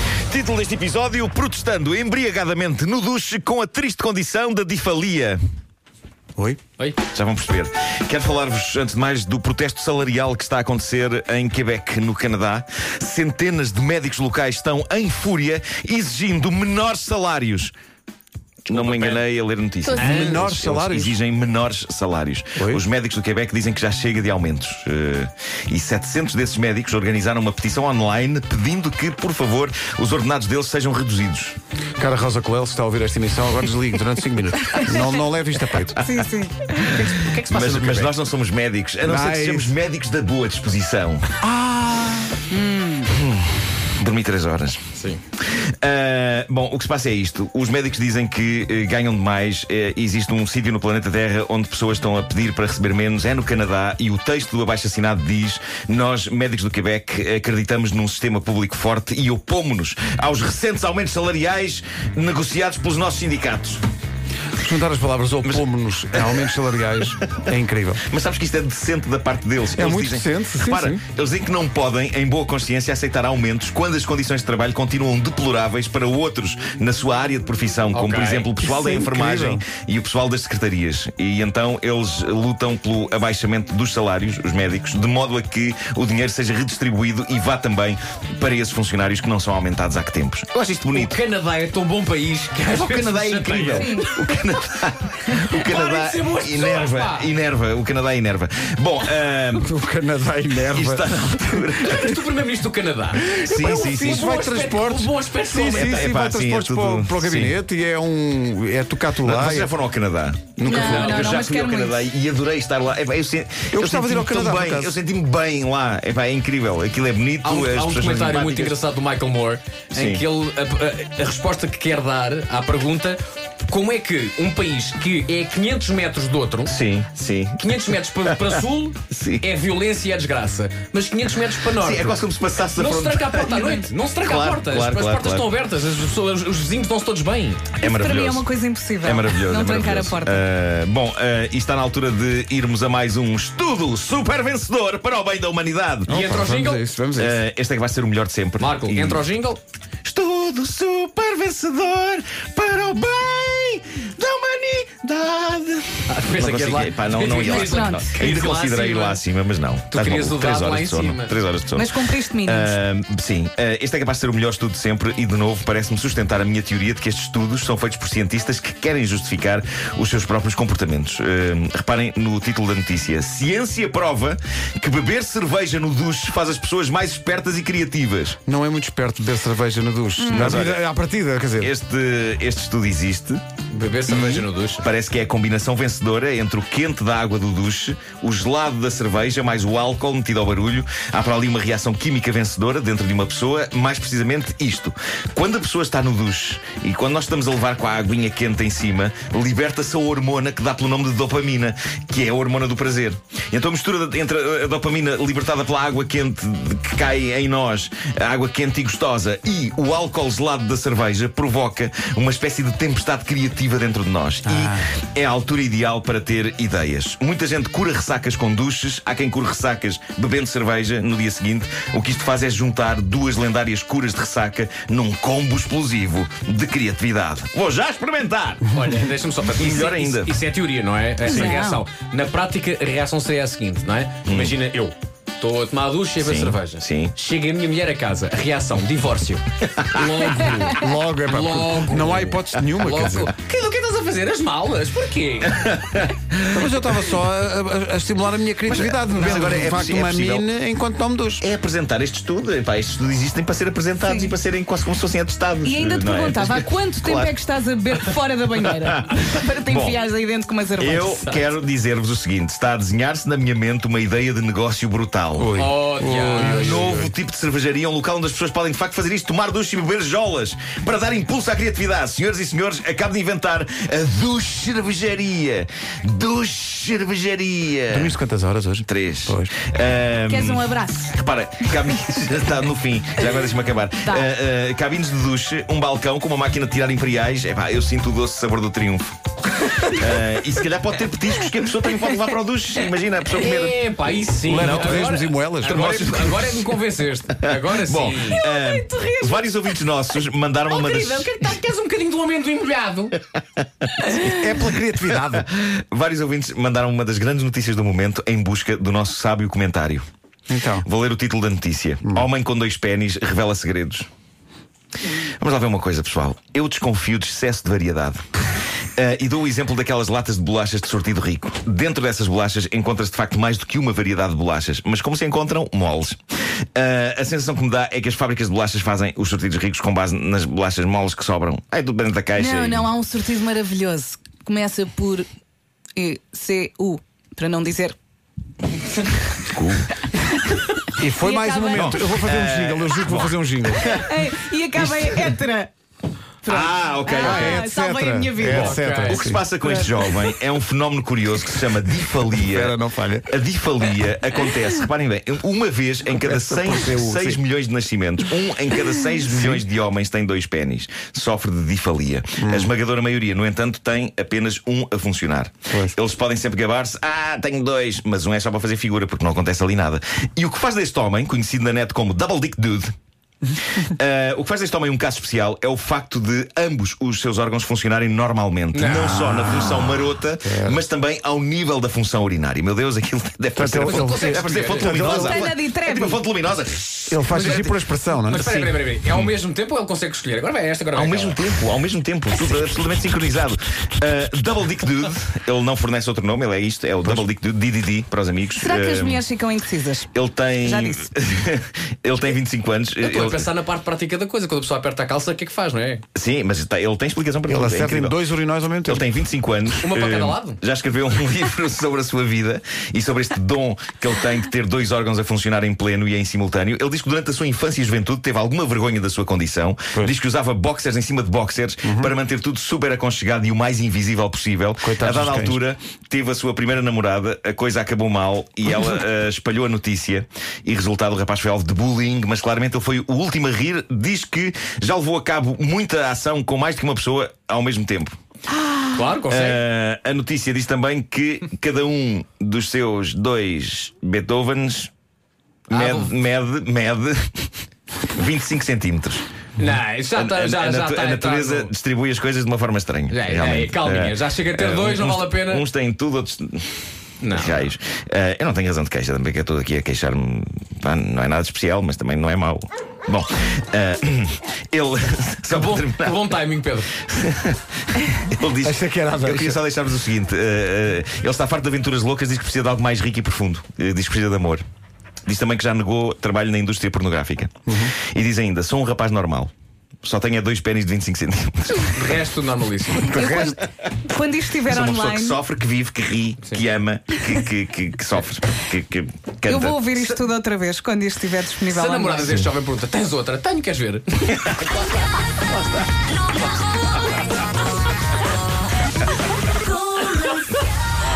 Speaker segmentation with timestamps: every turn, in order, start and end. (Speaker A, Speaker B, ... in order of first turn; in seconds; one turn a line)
Speaker A: 0.3-5.4
Speaker A: 7.1-17.7
Speaker B: 18.6-19.2
Speaker A: 18.7-31.5
Speaker C: 19.8-20.2
Speaker D: 19.9-21.2
Speaker B: 20.0-20.5
Speaker D: 22.6-22.8
Speaker D: 32.0-36.0
Speaker C: 34.7-35.0
Speaker C: 36.0-36.9
Speaker A: 36.0-36.3
Speaker B: 36.8-38.1
Speaker A: 36.8-41.3
Speaker D: 39.0-39.7
Speaker D: 41.4-42.4
Speaker C: 42.5-43.1
Speaker A: 43.0-44.9
Speaker B: 45.0-45.2
Speaker A: 45.5-63.8
Speaker D: 64.6-68.0
Speaker A: 65.4-66.5
Speaker A: 68.1-91.2
Speaker D: 69.7-71.0
Speaker B: 77.9-78.5
Speaker D: 78.6-79.7
Speaker B: 90.9-94.1
Speaker A: 92.6-99.7
Speaker C: 93.7-94.1
Speaker B: 95.4-97.3
Speaker D: 99.5-102.1
Speaker A: 100.7-102.2
Speaker B: 101.8-106.1
Speaker D: 103.3-109.7
Speaker A: 103.4-104.2
Speaker A: 105.7-107.6
Speaker A: 109.2-118.8
Speaker D: 110.6-111.2
Speaker C: 110.6-112.1
Speaker B: 110.7-111.3
Speaker D: 113.7-115.0
Speaker B: 117.4-126.8
Speaker A: 119.9-120.2
Speaker A: 126.7-127.6
Speaker B: 127.6-132.2
Speaker A: 128.3-128.5
Speaker A: 129.1-129.4
Speaker A: 131.7-135.5
Speaker B: 132.8-137.7
Speaker C: 133.5-133.8
Speaker A: 137.8-138.5
Speaker C: 137.8-140.4
Speaker A: 139.0-146.2
Speaker B: 146.1-146.8
Speaker D: 146.1-147.4
Speaker A: 147.2-149.2
Speaker B: 148.6-149.6
Speaker A: 150.0-178.4
Speaker B: 156.1-159.2
Speaker C: 157.3-158.2
Speaker B: 159.9-161.4
Speaker C: 161.7-162.8
Speaker D: 178.4-181.7
Speaker C: 180.2-180.6
Speaker A: 180.2-180.8
Speaker A: 181.6-183.4
Speaker B: 183.7-184.9
Speaker A: 184.1-228.8
Speaker D: 214.5-214.8
Speaker B: 228.7-245.7
Speaker A: 229.6-230.3
Speaker A: 231.2-231.5
Speaker C: 231.2-231.8
Speaker A: 234.2-234.6
Speaker A: 236.2-237.1
Speaker D: 240.6-243.3
Speaker A: 245.7-246.6
Speaker D: 246.5-251.4
Speaker A: 248.7-250.5
Speaker A: 251.4-257.4
Speaker C: 254.0-254.3
Speaker C: 255.6-261.4
Speaker A: 258.6-260.0
Speaker A: 260.7-265.6
Speaker D: 265.4-267.1
Speaker B: 265.5-266.9
Speaker A: 266.3-278.2
Speaker D: 277.9-279.5
Speaker A: 278.9-289.2
Speaker C: 280.2-281.1
Speaker C: 284.0-284.3
Speaker A: 289.7-293.8
Speaker B: 293.3-298.4
Speaker D: 294.4-296.6
Speaker A: 294.5-295.1
Speaker A: 295.7-296.3
Speaker A: 297.4-301.4
Speaker C: 298.3-299.8
Speaker B: 300.7-303.2
Speaker A: 303.8-304.3
Speaker D: 304.2-305.4
Speaker A: 305.1-310.0
Speaker D: 310.5-310.9
Speaker A: 310.8-314.1
Speaker A: 315.1-318.3
Speaker A: 318.9-326.2
Speaker A: 326.7-332.9
Speaker C: 332.3-335.3
Speaker C: 335.9-337.9
Speaker C: 338.9-339.4
Speaker A: 339.5-339.9
Speaker C: 340.1-342.0
Speaker D: 340.9-343.9
Speaker A: 341.7-344.1
Speaker C: 343.7-345.7
Speaker A: 344.8-345.3
Speaker C: 346.4-350.4
Speaker A: 346.4-347.6
Speaker D: 347.1-349.4
Speaker B: 348.4-349.2
Speaker A: 349.0-352.7
Speaker D: 352.3-353.3
Speaker A: 353.3-372.9
Speaker D: 356.1-357.4
Speaker D: 359.3-359.6
Speaker D: 362.4-362.7
Speaker D: 365.7-365.9
Speaker A: 373.8-387.7
Speaker B: 378.7-379.6
Speaker D: 380.4-380.8
Speaker D: 383.6-385.5
Speaker B: 383.8-385.0
Speaker C: 385.0-386.2
Speaker D: 387.1-388.7
Speaker B: 387.3-391.4
Speaker A: 390.9-399.3
Speaker C: 398.6-401.1
Speaker A: 400.1-403.5
Speaker B: 403.0-406.0
Speaker A: 406.1-408.2
Speaker D: 407.5-409.1
Speaker A: 408.9-438.1
Speaker B: 409.8-410.6
Speaker D: 421.8-422.1
Speaker D: 424.8-425.6
Speaker C: 438.6-439.0
Speaker B: 438.9-439.6
Speaker A: 439.3-444.9
Speaker A: 445.7-447.5
Speaker B: 445.7-446.1
Speaker A: 448.1-449.2
Speaker B: 449.6-451.7
Speaker A: 450.1-466.3
Speaker B: 453.1-455.6
Speaker B: 457.2-457.6
Speaker B: 465.5-466.9
Speaker A: 466.9-474.6
Speaker D: 468.6-469.6
Speaker A: 475.2-479.5
Speaker D: 477.7-477.9
Speaker A: 480.0-482.0
Speaker B: 481.9-483.3
Speaker C: 483.0-485.4
Speaker A: 483.1-483.5
Speaker A: 484.6-490.2
Speaker C: 489.4-492.5
Speaker B: 491.6-494.6
Speaker A: 494.5-494.8
Speaker A: 495.3-495.9